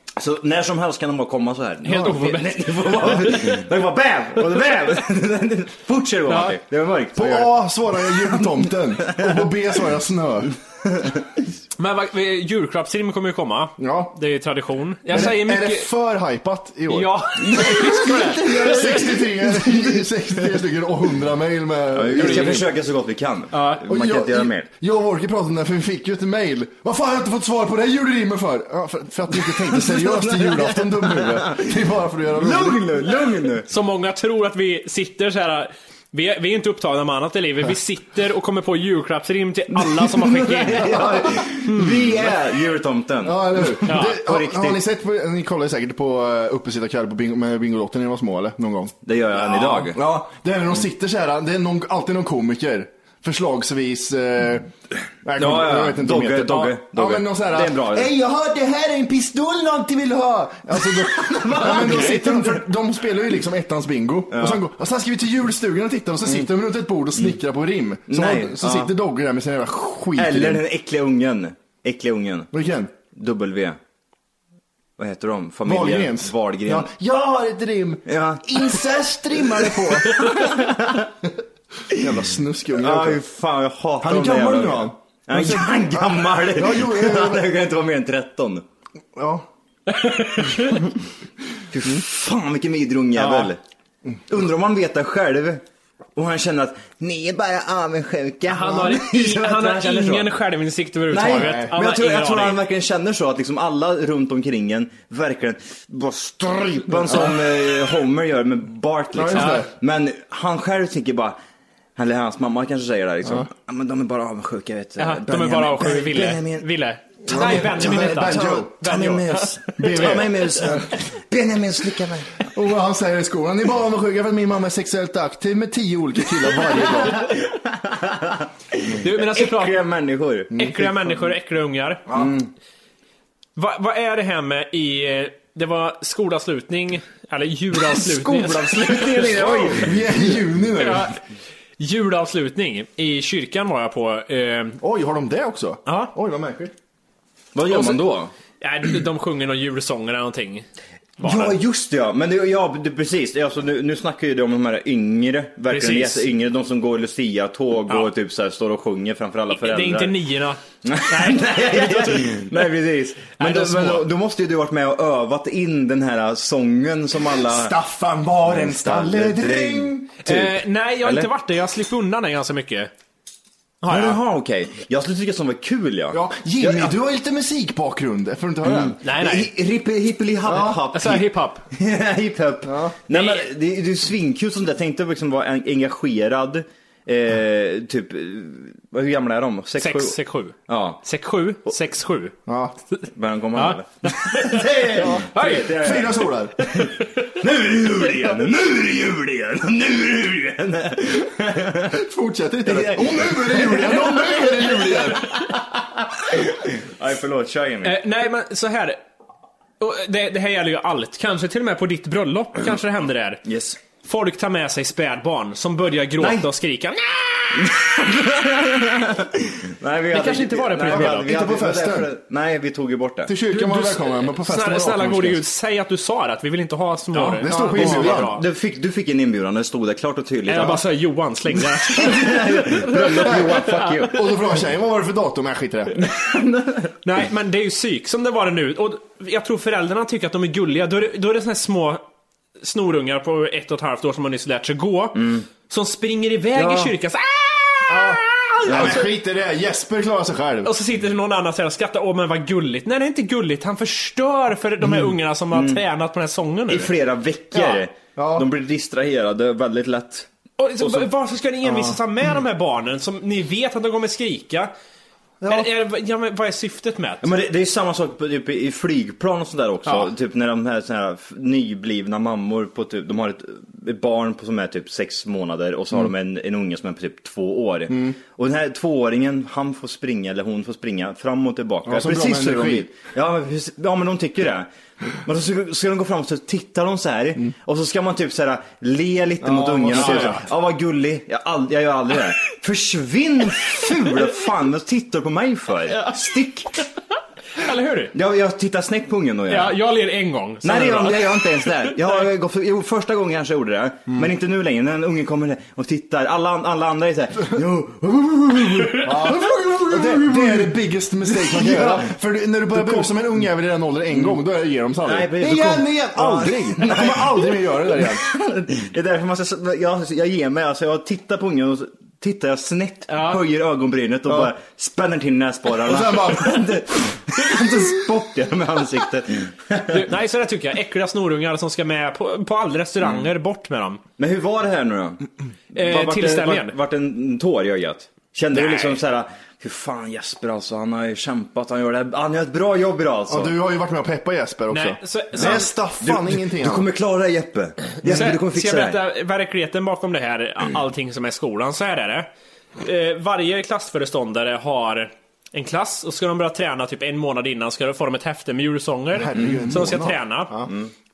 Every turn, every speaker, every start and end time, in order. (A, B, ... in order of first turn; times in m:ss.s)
0:00.2-0:07.5 A
0:01.8-0:03.6 B
0:06.3-0:06.6 B
0:07.1-0:10.5 C
0:08.1-0:09.3 A
0:11.8-0:15.9 B
0:13.8-0:14.1 C
0:15.1-0:22.7 C
0:16.9-0:19.2 B
0:17.5-0:19.2 A
0:21.9-0:24.7 A
0:22.1-0:22.6 B
0:23.5-0:23.8 B
0:23.9-0:32.9 C
0:29.6-0:31.7 A
0:32.3-0:33.7 A
0:33.7-0:42.1 B
0:39.7-0:44.8 A
0:41.0-0:41.4 C
0:43.2-0:54.7 C
0:43.9-0:44.2 B
0:49.0-0:50.0 A
0:55.2-1:10.6 C
0:55.4-0:58.1 A
1:00.8-1:02.6 A
1:04.3-1:04.6 A
1:08.1-1:08.9 A
1:10.2-1:12.5 A
1:12.5-1:12.9 C
1:13.1-1:13.8 A
1:15.0-1:16.9 A
1:15.6-1:20.3 C
1:18.0-1:21.1 A
1:21.9-1:23.2 C
1:22.7-1:28.6 A
1:24.0-1:27.5 C
1:29.2-1:29.5 C
1:29.9-1:30.8 B
1:31.7-1:33.6 A
1:33.1-1:33.5 B
1:34.3-1:35.6 A
1:36.2-1:40.3 A
1:38.5-1:42.6 B
1:41.1-1:51.4 A
1:41.2-1:41.7 C
1:47.0-1:47.4 C
1:49.1-1:49.7 C
1:49.3-1:49.6 B
1:52.0-1:56.7 A
1:55.0-2:00.7 B
1:57.3-2:02.4 A
1:57.3-1:58.8 C
1:59.8-2:00.9 C
2:02.5-2:07.3 C
2:07.1-2:10.6 A
2:09.0-2:09.8 B
2:10.5-2:10.9 C
2:10.5-2:12.1 B
2:12.1-2:12.3 C
2:12.1-2:12.5 A
2:13.6-2:19.9 B
2:18.0-2:20.0 A
2:19.4-2:21.1 C
2:20.7-2:21.2 B
2:21.8-2:24.8 B
2:24.8-2:26.7 C
2:25.9-2:26.1 B
2:27.5-2:28.3 A
2:27.7-2:30.7 B
2:31.2-2:31.6 B
2:31.2-2:40.1 A
2:35.7-2:36.3 B
2:39.5-2:42.7 B
2:40.8-2:47.7 A
2:43.4-2:44.1 B
2:47.3-2:50.1 C
2:48.4-2:51.3 A
2:50.2-2:52.9 B
2:53.8-2:54.2 B
2:53.9-2:56.9 A
2:56.1-2:59.0 C
2:58.6-3:10.2 A
2:59.0-2:59.5 B
3:00.4-3:00.8 C
3:00.9-3:01.6 B
3:02.6-3:03.0 C
3:03.1-3:03.5 B
3:09.8-3:12.4 B
3:10.7-3:11.0 A
3:12.5-3:12.8 C
3:12.9-3:16.1 B
3:13.1-3:22.0 A
3:15.0-3:16.6 C
3:21.9-3:25.3 C
3:22.6-3:28.0 A
3:27.8-3:29.0 B
3:29.8-3:33.4 B
3:33.5-3:33.8 A
3:34.0-3:37.7 B
3:36.2-3:36.5 A
3:37.5-3:43.3 A
3:40.1-3:41.3 B
3:40.9-3:42.1 C
3:43.2-3:45.4 C
3:43.5-3:48.4 B
3:47.1-3:50.8 A
3:47.4-3:48.4 C
3:50.5-3:54.1 B
3:51.8-3:54.2 A
3:53.0-3:56.0 C
3:56.0-3:56.9 A
3:57.0-4:02.0 B
4:02.6-4:09.1 B
4:05.1-4:05.4 A
4:07.9-4:10.7 C
4:08.6-4:09.0 A
4:10.6-4:16.9 B
4:14.8-4:15.8 A
4:16.7-4:20.3 A
4:17.5-4:18.5 C
4:20.6-4:24.7 B
4:20.8-4:21.1 A
4:21.7-4:21.9 C
4:25.4-4:25.7 C
4:25.5-4:27.3 B
4:27.2-4:44.7 A
4:29.9-4:30.1 B
4:37.9-4:38.2 C
4:41.8-4:42.9 C
4:45.2-4:56.7 A
4:49.4-4:50.4 C
4:49.9-4:50.4 B
4:55.9-4:56.4 B
4:57.6-4:58.1 B
4:58.1-4:59.8 A
4:59.5-5:02.3 B
5:00.6-5:10.7 A
5:09.0-5:18.2 C
5:11.3-5:12.1 A
5:12.7-5:13.1 A
5:14.1-5:14.4 A
5:15.0-5:30.0 A
5:23.1-5:23.4 B
5:24.3-5:24.5 C
5:25.8-5:26.7 C
5:29.9-5:34.0 B
5:33.0-5:33.3 A
5:34.2-5:35.2 A
5:35.7-5:43.5 A
5:35.8-5:36.8 B
5:38.5-5:39.0 B
5:43.3-5:46.9 C
5:44.7-5:45.7 B
5:45.4-5:49.0 A
5:48.0-5:52.3 B
5:52.8-6:00.6 B
5:59.1-6:00.7 C
5:59.4-5:59.7 A
6:00.6-6:00.9 A